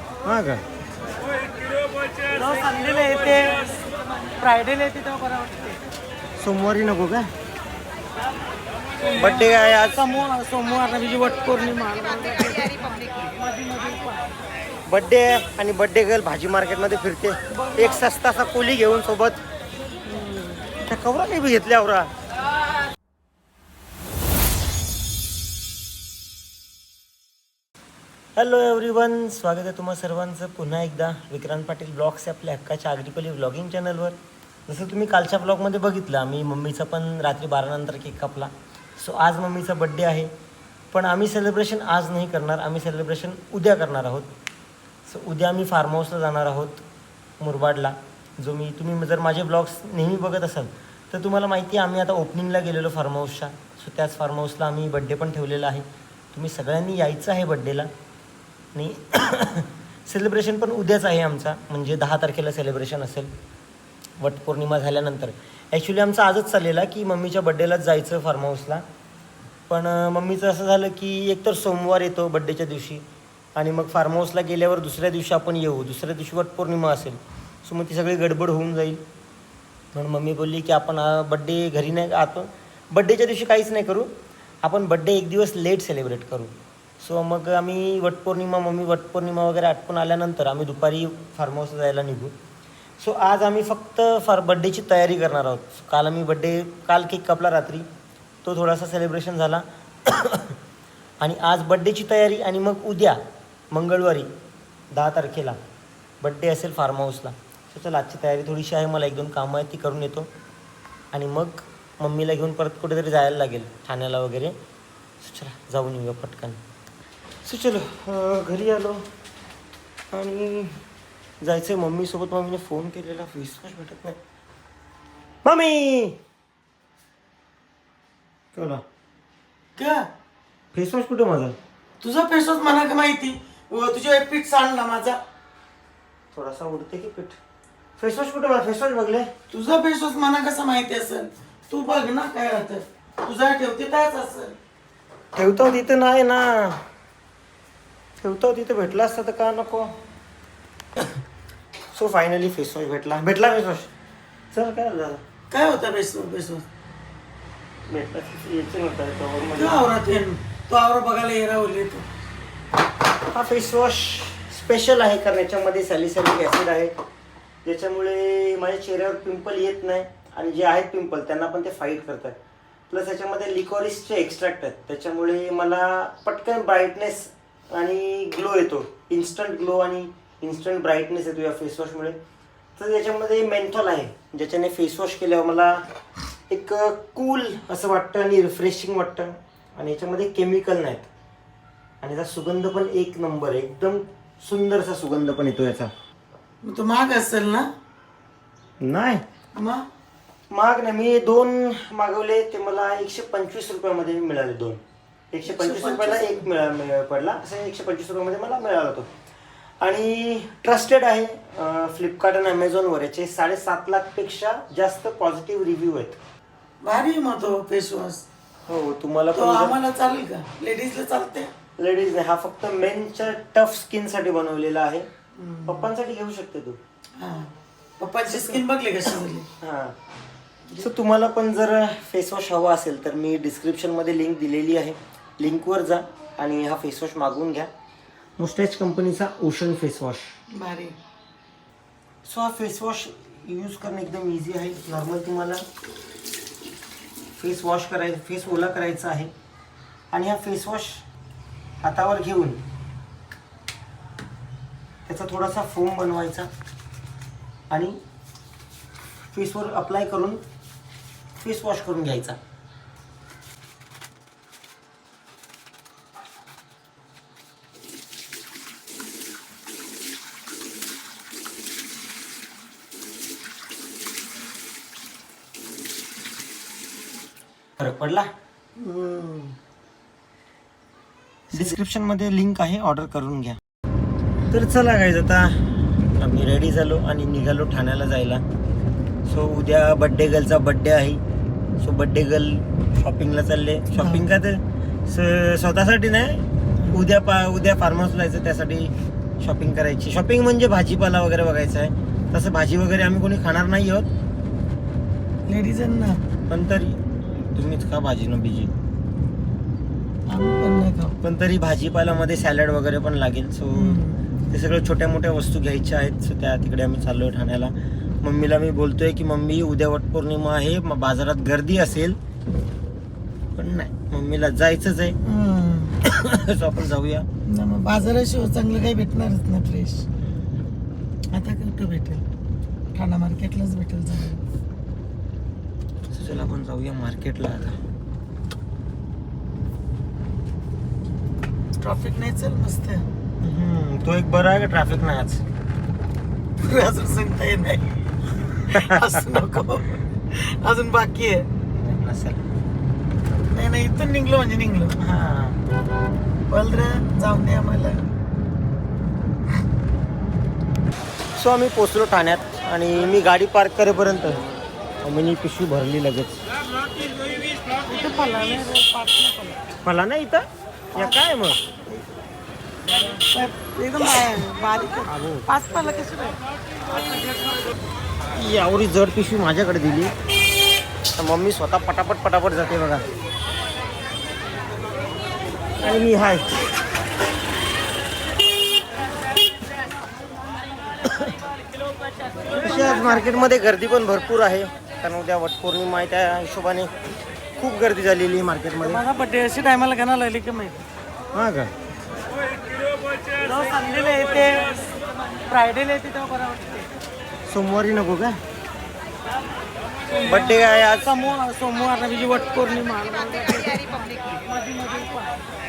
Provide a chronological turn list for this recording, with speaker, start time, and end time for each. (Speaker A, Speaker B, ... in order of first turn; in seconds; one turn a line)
Speaker A: 0.2-0.6
Speaker B: 2.3-5.8
Speaker A: 6.4-7.3
Speaker B: 9.0-14.2
Speaker A: 9.2-10.1
Speaker A: 14.9-19.4
Speaker B: 17.5-18.0
Speaker B: 20.1-20.6
Speaker A: 20.9-22.1
Speaker A: 28.4-40.3
Speaker A: 40.9-44.3
Speaker A: 45.1-46.8
Speaker A: 47.4-57.9
Speaker A: 58.8-63.3
Speaker A: 64.2-68.8
Speaker A: 69.7-73.0
Speaker A: 73.6-79.0
Speaker A: 79.9-84.1
Speaker A: 84.6-92.4
Speaker A: 93.0-97.9
Speaker A: 98.4-100.6
Speaker A: 101.2-103.2
Speaker A: 103.7-104.3
Speaker A: 104.9-105.6
Speaker A: 106.2-110.3
Speaker A: 111.1-114.6
Speaker A: 115.2-116.6
Speaker A: 117.4-119.1
Speaker A: 120.1-120.8
Speaker A: 121.4-124.2
Speaker A: 125.5-126.2
Speaker A: 128.5-128.8
Speaker B: 129.8-130.1
Speaker A: 130.7-131.6
Speaker B: 132.0-135.2
Speaker A: 136.3-137.4
Speaker A: 138.0-139.3
Speaker B: 139.5-144.6
Speaker A: 145.3-146.8
Speaker A: 148.2-150.0
Speaker A: 151.9-153.9
Speaker A: 154.5-155.2
Speaker B: 155.5-156.7
Speaker A: 157.9-159.9
Speaker B: 159.6-162.1
Speaker A: 163.3-166.9
Speaker A: 167.7-172.4
Speaker A: 172.9-182.2
Speaker A: 182.8-185.8
Speaker A: 186.5-191.1
Speaker A: 192.0-195.9
Speaker B: 196.6-197.7
Speaker A: 198.8-199.2
Speaker B: 199.6-199.9
Speaker A: 200.5-204.8
Speaker A: 205.3-209.1
Speaker B: 205.5-206.4
Speaker A: 209.8-216.2
Speaker B: 216.8-218.2
Speaker A: 218.7-219.8
Speaker B: 219.3-221.5
Speaker A: 221.8-225.1
Speaker B: 225.4-225.8
Speaker A: 225.7-226.8
Speaker B: 227.2-229.5
Speaker A: 228.3-228.6
Speaker A: 229.6-230.0
Speaker A: 230.8-237.7
Speaker A: 238.4-240.2
Speaker B: 240.5-241.0
Speaker A: 242.2-245.6
Speaker A: 247.4-249.3
Speaker A: 250.1-251.0
Speaker A: 251.8-252.6
Speaker A: 255.1-256.5
Speaker A: 257.7-258.0
Speaker A: 259.3-260.4
Speaker A: 261.4-262.4
Speaker A: 277.8-278.3
Speaker B: 278.8-279.5
Speaker A: 281.5-283.6
Speaker A: 284.5-288.4
Speaker A: 289.3-291.2
Speaker A: 291.8-304.1
Speaker B: 293.9-294.2
Speaker B: 305.4-306.2
Speaker A: 306.5-307.0
Speaker A: 307.5-308.7
Speaker B: 310.3-311.2
Speaker A: 311.2-322.2
Speaker B: 313.7-314.2
Speaker A: 323.6-325.2
Speaker B: 325.2-326.0
Speaker A: 326.0-327.3
Speaker B: 327.5-330.1
Speaker B: 331.3-332.2
Speaker B: 332.9-334.4
Speaker A: 336.1-337.8
Speaker B: 341.8-343.1
Speaker A: 343.4-345.4
Speaker B: 346.6-351.5
Speaker A: 348.7-349.2
Speaker A: 351.7-352.4
Speaker B: 353.5-355.0
Speaker A: 355.0-355.6
Speaker B: 356.5-358.1
Speaker A: 361.4-364.4
Speaker A: 365.0-366.4
Speaker B: 367.9-369.6
Speaker A: 369.8-371.6
Speaker B: 370.9-371.2
Speaker B: 373.2-376.4
Speaker A: 375.1-375.5
Speaker A: 378.3-380.1
Speaker A: 381.2-383.1
Speaker A: 385.8-386.5
Speaker A: 391.1-391.3
Speaker B: 392.5-393.0
Speaker A: 392.5-396.9
Speaker A: 397.6-399.0
Speaker B: 398.8-400.9
Speaker A: 401.3-401.7
Speaker B: 403.4-406.9
Speaker A: 407.5-408.4
Speaker B: 410.1-415.4
Speaker A: 410.3-411.1